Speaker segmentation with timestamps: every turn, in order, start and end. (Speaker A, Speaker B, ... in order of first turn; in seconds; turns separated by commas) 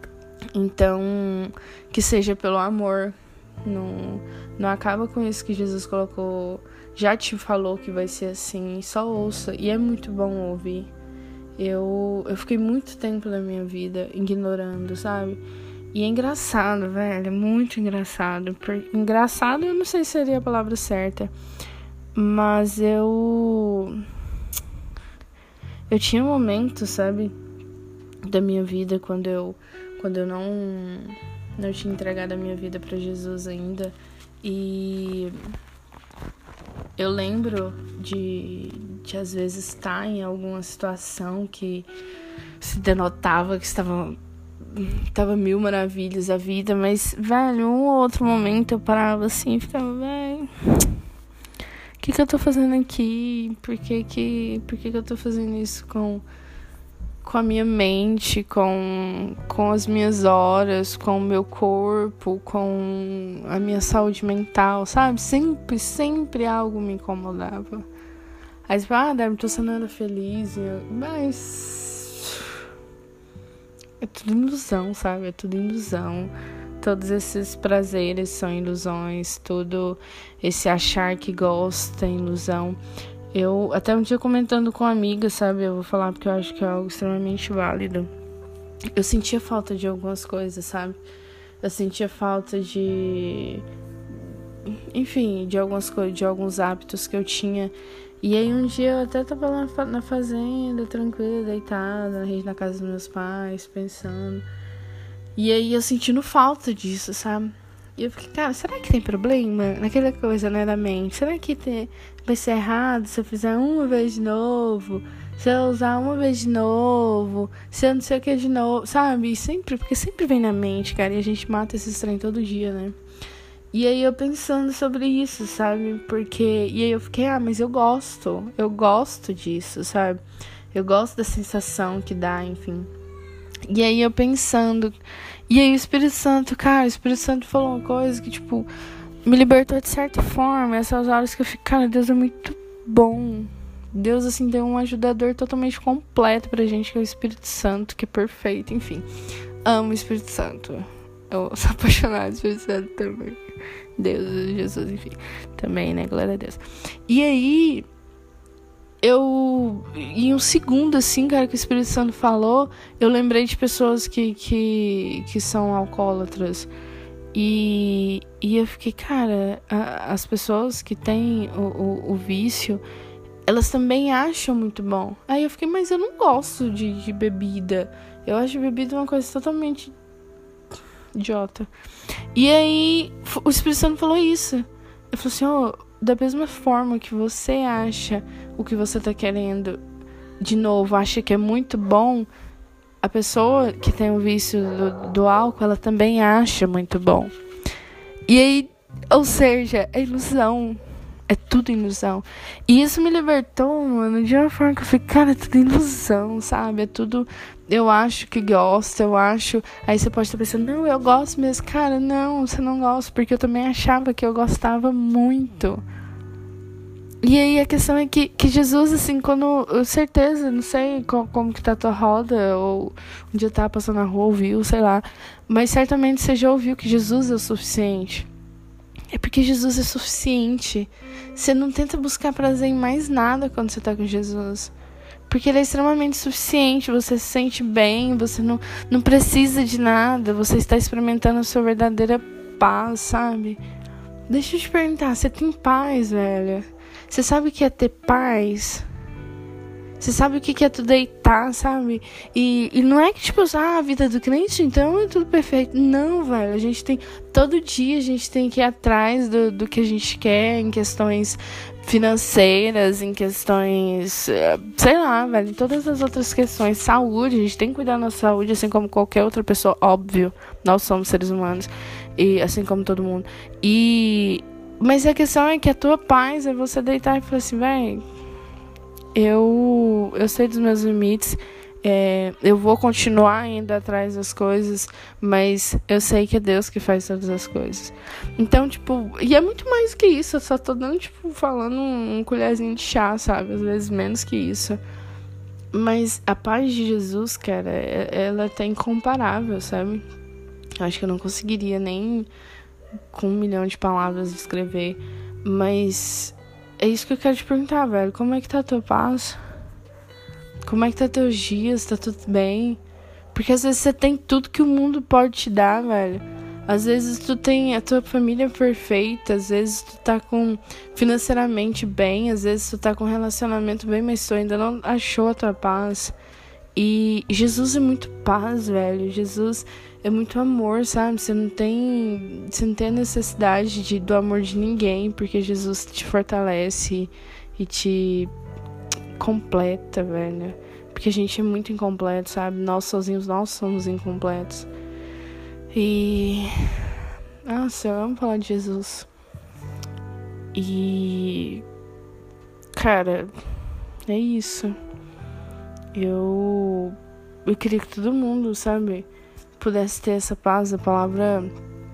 Speaker A: 0.5-10.9, Speaker A: 11.6-15.4, Speaker A: 15.9-21.3, Speaker A: 22.1-24.1, Speaker A: 25.9-27.3, Speaker A: 28.2-35.3, Speaker A: 37.0-41.9, Speaker A: 42.6-51.0, Speaker A: 52.0-56.2, Speaker A: 57.2-67.8, Speaker A: 68.7-72.6, Speaker A: 74.0-82.8, Speaker A: 83.3-88.1, Speaker A: 89.0-91.0, Speaker A: 91.6-93.6, Speaker A: 94.6-104.5, Speaker A: 105.3-123.0, Speaker A: 123.7-130.2, Speaker A: 130.7-132.9, Speaker A: 133.7-135.0, Speaker A: 135.5-138.7, Speaker A: 139.2-149.1, Speaker A: 149.6-153.4, Speaker A: 154.0-157.8, Speaker A: 159.0-166.7, Speaker A: 167.3-172.8, Speaker A: 173.5-179.9, Speaker A: 181.1-181.7, Speaker A: 182.3-189.8, Speaker A: 190.4-192.3, Speaker A: 193.0-197.3, Speaker A: 198.3-215.8, Speaker A: 217.2-228.3, Speaker A: 229.1-234.7, Speaker A: 235.3-243.6, Speaker A: 244.3-248.9, Speaker A: 250.0-278.0, Speaker A: 279.1-294.8, Speaker A: 295.7-300.0, Speaker A: 300.8-302.3, Speaker A: 303.1-309.4, Speaker A: 310.6-312.8, Speaker A: 313.3-326.1, Speaker A: 326.8-338.3, Speaker A: 339.2-344.7, Speaker A: 345.7-349.1, Speaker A: 350.5-351.6, Speaker A: 352.7-354.8, Speaker A: 355.9-361.5